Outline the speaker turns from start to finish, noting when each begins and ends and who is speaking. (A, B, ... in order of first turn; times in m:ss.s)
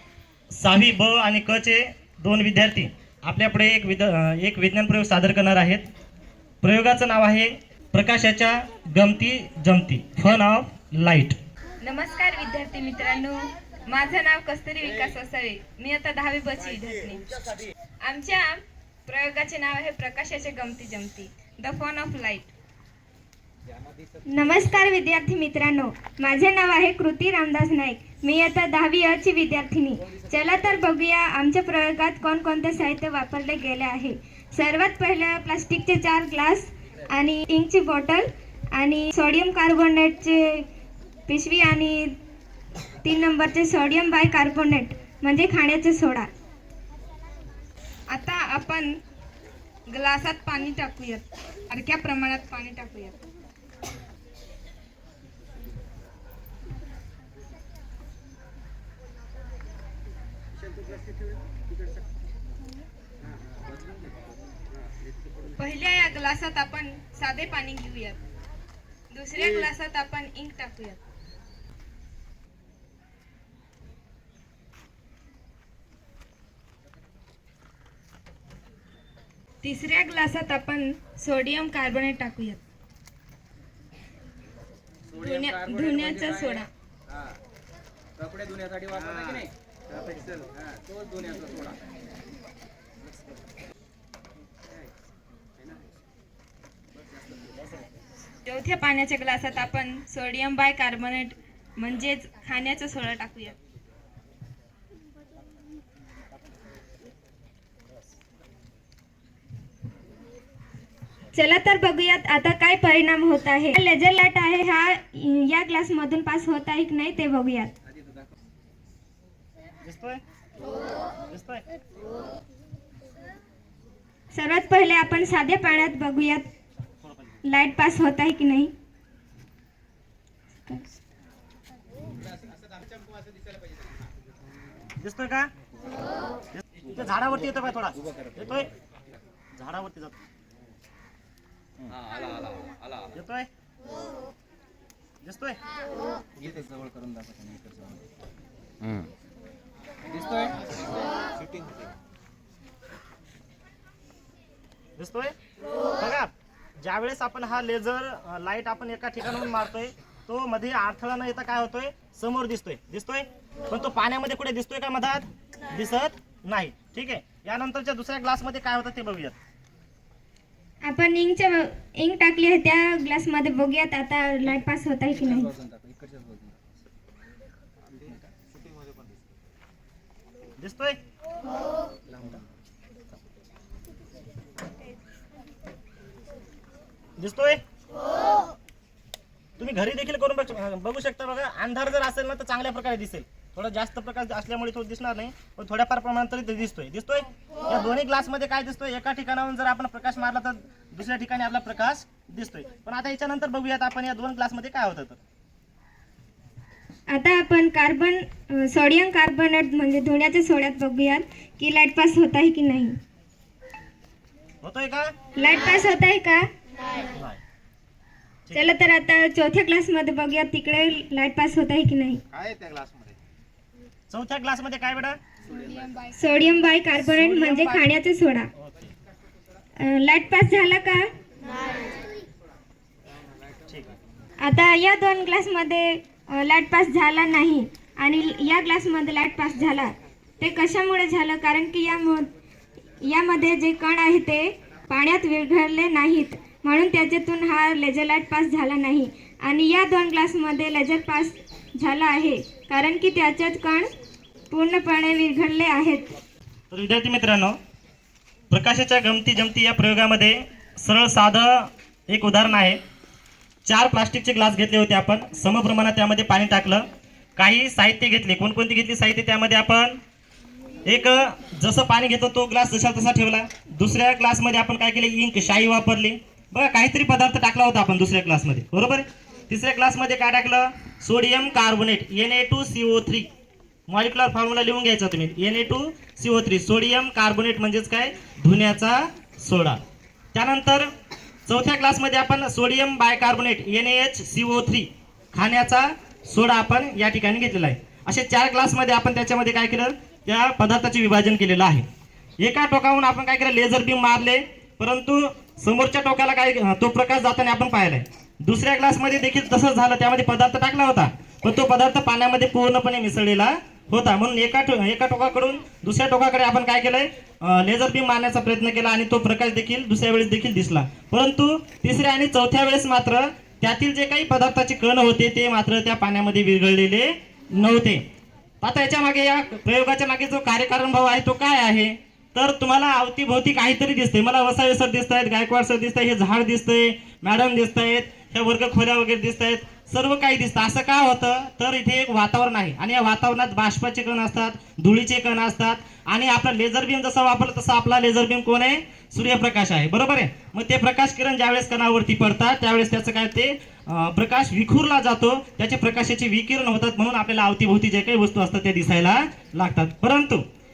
0:00.5-0:05.9 A
0:06.6-0:11.4 A
0:11.8-0:17.2 B
0:18.0-0:22.5 B
0:24.2-0:40.7 C
0:41.3-0:42.2 C
0:43.0-0:46.3 C
0:48.1-0:49.0 B
0:49.9-0:53.2 B
1:00.8-1:01.1 D
1:03.6-1:04.0 D
1:05.5-1:08.2 B
1:09.1-1:11.0 B
1:19.6-1:22.6 B
1:25.1-1:26.6 D
1:25.1-1:26.7 B
1:28.2-1:31.8 D
1:38.4-1:43.6 B
1:51.3-1:57.7 C
1:59.8-2:00.2 A
2:01.3-2:01.6 A
2:04.3-2:06.4 C
2:07.4-2:08.7 C
2:15.0-2:15.5 A
2:16.5-2:18.7 A
2:19.6-2:20.2 A
2:21.9-2:23.1 D
2:23.1-2:23.5 A
2:25.2-2:25.6 A
2:26.4-2:28.0 D
2:28.8-2:29.1 D
2:30.1-2:30.7 D
2:35.0-2:35.3 A
2:36.0-2:36.3 A
2:36.8-2:49.4 A
2:50.8-2:55.6 C
2:55.4-2:56.6 D
2:57.9-2:58.3 D
3:00.6-3:01.0 A
3:07.2-3:07.6 A
3:09.6-3:25.2 A
3:27.1-3:32.9 C
3:34.6-3:35.1 A
3:35.4-3:36.5 C
3:38.4-3:38.7 A
3:38.5-3:42.2 C
3:42.3-3:43.2 A
3:44.1-3:45.2 A
3:45.5-3:46.8 B
3:45.6-3:45.8 D
3:46.1-3:48.5 C
3:47.0-3:47.8 A
3:48.6-3:48.9 A
3:49.8-3:51.1 C
3:53.7-3:53.9 A
3:54.4-4:02.3 C
4:03.0-4:13.9 C
4:14.5-4:16.1 C
4:16.7-4:17.6 A
4:18.5-4:22.8 A
4:23.6-4:30.0 A
4:30.8-4:43.3 A
4:43.9-4:49.8 A
4:50.3-4:50.9 A
4:51.5-5:01.8 A
5:02.4-5:28.0 A
5:28.6-6:00.4 A